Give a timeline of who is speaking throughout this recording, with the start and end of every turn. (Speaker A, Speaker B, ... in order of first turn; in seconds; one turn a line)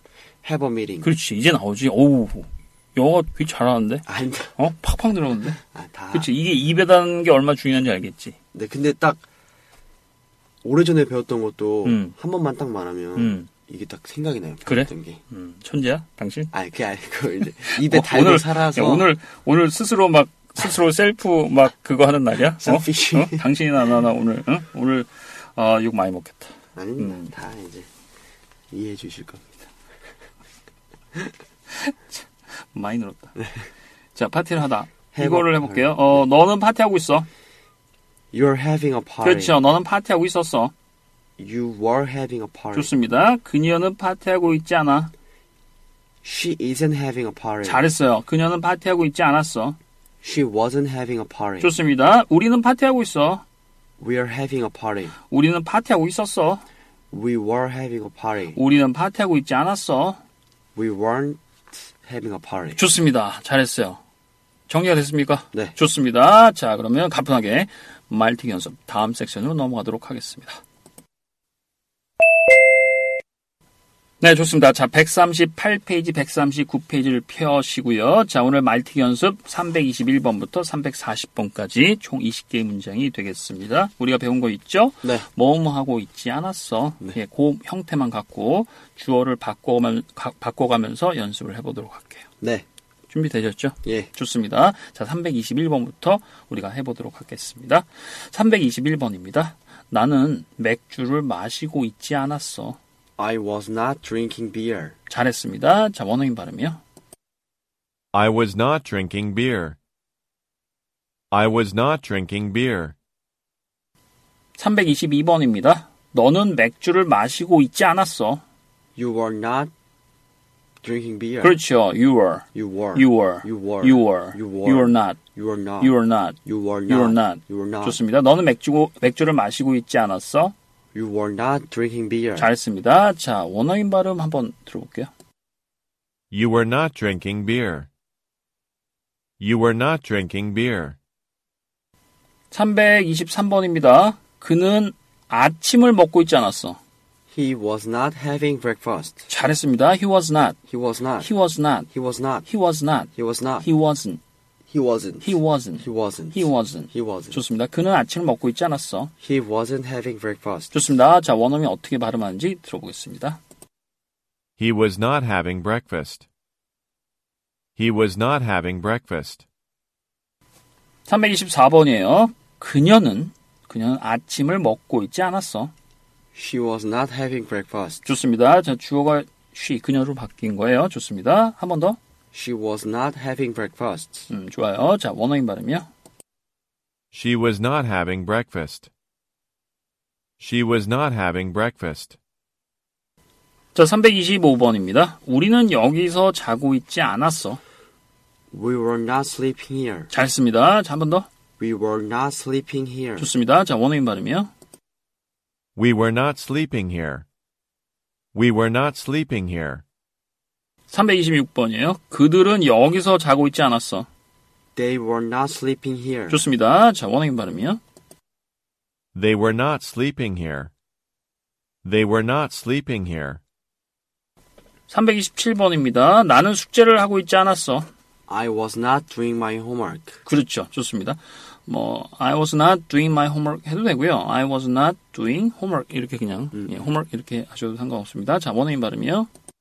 Speaker A: 0.4-1.1
Speaker B: 1.0-5.6
Speaker A: 4.0-4.5
Speaker A: 5.6-6.3
Speaker B: 6.1-8.3
Speaker A: 8.5-9.2
Speaker A: 10.6-15.2
Speaker B: 11.8-12.2
Speaker B: 13.2-13.5
Speaker B: 14.7-16.5
Speaker A: 16.5-19.1
Speaker B: 17.6-27.3
Speaker A: 22.6-23.4
Speaker A: 26.7-27.9
Speaker A: 28.7-29.4
Speaker B: 31.7-33.4
Speaker B: 34.1-37.3
Speaker A: 35.1-36.2
Speaker A: 38.3-39.5
Speaker B: 39.2-40.7
Speaker A: 41.4-42.9
Speaker B: 42.7-45.1
Speaker A: 46.2-47.8
Speaker B: 47.6-49.8
Speaker A: 50.2-51.7
Speaker B: 51.6-53.4
Speaker A: 54.0-55.1
Speaker B: 55.3-56.6
Speaker A: 57.1-58.6
Speaker B: 58.5-60.2
Speaker A: 60.7-62.8
Speaker B: 62.8-64.0
Speaker B: 64.7-70.6
Speaker B: 74.2-92.3
Speaker B: 93.1-102.8
Speaker A: 93.8-94.1
Speaker A: 103.2-104.9
Speaker B: 105.1-106.8
Speaker C: 108.1-109.8
Speaker C: 111.3-113.0
Speaker B: 114.6-118.4
Speaker A: 119.0-119.7
Speaker A: 120.8-121.6
Speaker B: 121.4-125.2
Speaker A: 122.5-125.9
Speaker B: 125.8-130.5
Speaker A: 126.4-128.0
Speaker A: 130.9-132.5
Speaker B: 132.3-135.1
Speaker C: 136.3-137.9
Speaker C: 139.4-141.0
Speaker B: 142.5-146.8
Speaker A: 147.3-149.3
Speaker B: 149.3-150.6
Speaker A: 150.7-151.3
Speaker B: 151.2-151.9
Speaker A: 151.9-152.5
Speaker B: 152.4-154.2
Speaker A: 153.1-153.7
Speaker A: 154.7-157.4
Speaker B: 155.2-159.1
Speaker A: 159.2-160.7
Speaker B: 160.7-163.4
Speaker C: 164.6-166.2
Speaker C: 167.8-169.4
Speaker B: 171.1-175.7
Speaker A: 176.3-178.0
Speaker B: 178.0-182.0
Speaker A: 182.3-184.3
Speaker B: 184.3-185.9
Speaker C: 187.1-188.9
Speaker C: 190.4-192.2
Speaker B: 193.7-197.6
Speaker A: 198.5-200.1
Speaker B: 200.1-201.3
Speaker A: 201.6-203.3
Speaker B: 203.2-204.5
Speaker C: 205.8-207.2
Speaker C: 208.3-209.8
Speaker B: 210.9-214.1
Speaker A: 214.8-216.4
Speaker B: 216.3-217.8
Speaker C: 219.1-220.7
Speaker C: 221.8-223.4
Speaker B: 224.9-227.9
Speaker A: 228.3-230.2
Speaker B: 230.2-239.3